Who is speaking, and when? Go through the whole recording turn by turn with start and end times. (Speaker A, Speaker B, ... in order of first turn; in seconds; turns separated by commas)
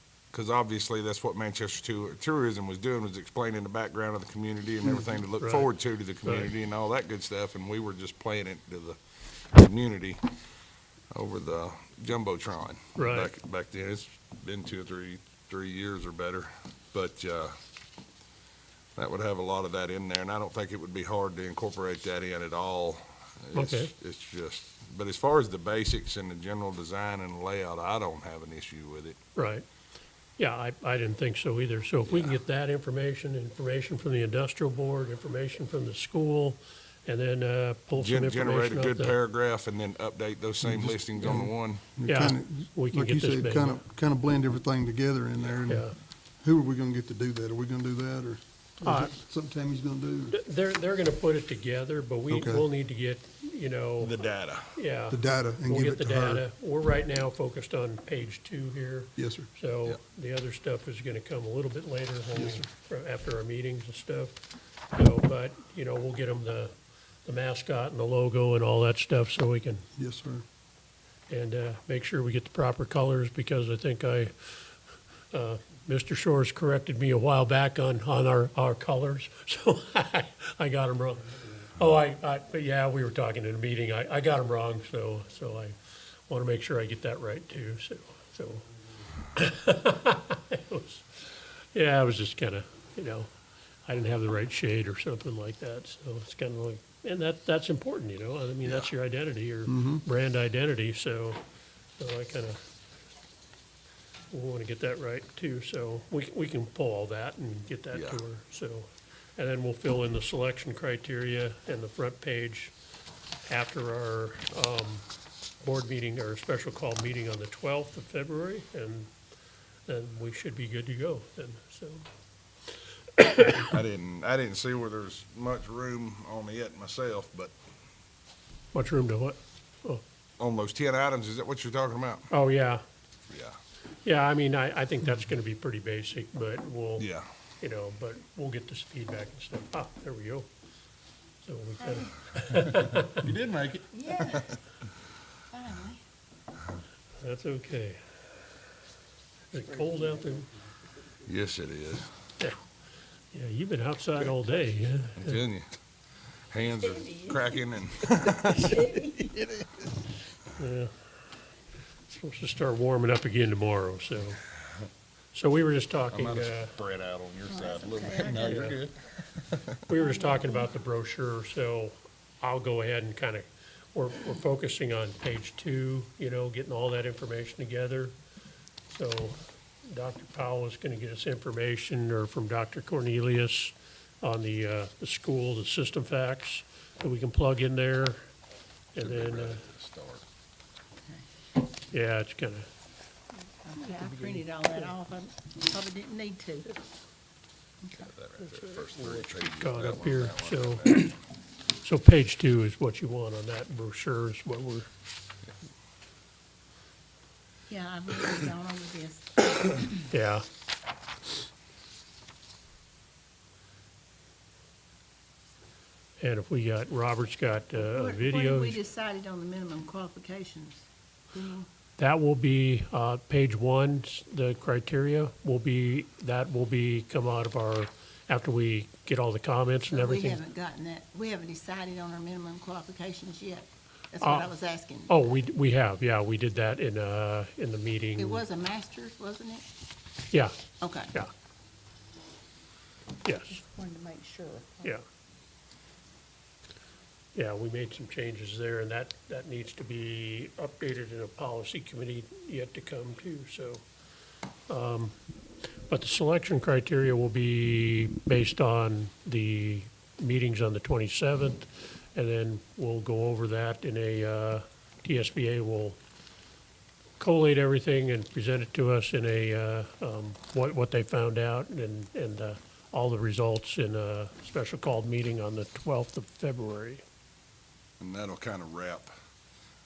Speaker A: 0.3-10.2, Speaker B: 5.4-5.7, Speaker B: 6.2-6.5, Speaker A: 11.1-17.6, Speaker B: 13.0-13.3, Speaker A: 19.0-29.2, Speaker B: 23.5-23.9, Speaker B: 29.4-29.6, Speaker B: 30.4-39.2, Speaker A: 32.1-32.4, Speaker A: 37.9-41.8, Speaker C: 40.6-45.9, Speaker B: 42.0-43.8, Speaker B: 45.7-46.0, Speaker C: 46.4-50.4, Speaker B: 48.8-49.1, Speaker B: 50.3-64.4, Speaker C: 52.3-52.7, Speaker A: 54.0-54.7, Speaker C: 55.1-56.4, Speaker C: 59.2-59.5, Speaker C: 62.3-62.6, Speaker B: 64.9-66.7, Speaker B: 67.2-69.8, Speaker C: 70.0-70.4, Speaker B: 71.3-74.7, Speaker B: 75.3-85.8, Speaker B: 86.3-88.7, Speaker B: 89.3-91.0, Speaker B: 91.7-93.3, Speaker B: 93.9-101.4, Speaker A: 98.7-98.9, Speaker C: 99.7-100.0, Speaker B: 102.0-102.6, Speaker B: 104.3-112.7, Speaker A: 107.9-108.2, Speaker B: 113.5-115.0, Speaker B: 115.6-119.1, Speaker B: 119.9-122.0, Speaker B: 123.2-123.7, Speaker A: 123.6-127.5, Speaker B: 128.7-130.0, Speaker A: 130.4-132.3, Speaker B: 132.3-132.8, Speaker A: 133.3-133.6, Speaker B: 134.1-137.1, Speaker A: 137.0-137.3, Speaker B: 137.6-140.5, Speaker B: 141.4-143.2, Speaker D: 141.8-142.1, Speaker A: 143.2-143.9, Speaker D: 143.9-144.6, Speaker D: 145.5-146.0, Speaker B: 147.2-148.0, Speaker B: 149.5-150.5, Speaker A: 151.2-152.1, Speaker B: 153.3-155.4, Speaker A: 155.2-155.7, Speaker A: 156.5-158.9, Speaker D: 157.1-157.3, Speaker D: 158.5-159.4, Speaker B: 160.6-160.9, Speaker B: 162.1-164.4, Speaker B: 165.3-166.7, Speaker A: 166.1-169.7, Speaker D: 167.5-168.8, Speaker B: 168.4-168.8, Speaker B: 169.9-178.2, Speaker D: 170.0-170.7, Speaker B: 178.9-188.2, Speaker B: 188.9-189.6, Speaker A: 189.0-190.2, Speaker B: 191.9-192.7, Speaker D: 193.7-196.8, Speaker D: 197.8-198.1, Speaker A: 198.0-201.2, Speaker B: 198.5-201.1, Speaker B: 201.8-204.9, Speaker D: 207.7-210.0, Speaker B: 210.1-210.4, Speaker B: 216.2-218.8, Speaker D: 217.8-221.7, Speaker B: 222.0-230.4, Speaker D: 229.9-235.2, Speaker B: 234.2-234.5, Speaker B: 235.1-238.4, Speaker D: 238.2-239.7, Speaker D: 240.8-241.1, Speaker B: 243.2-243.6, Speaker D: 243.5-245.0, Speaker B: 247.3-253.8, Speaker B: 254.7-255.1, Speaker B: 255.9-266.0, Speaker B: 267.2-277.0, Speaker A: 278.0-279.1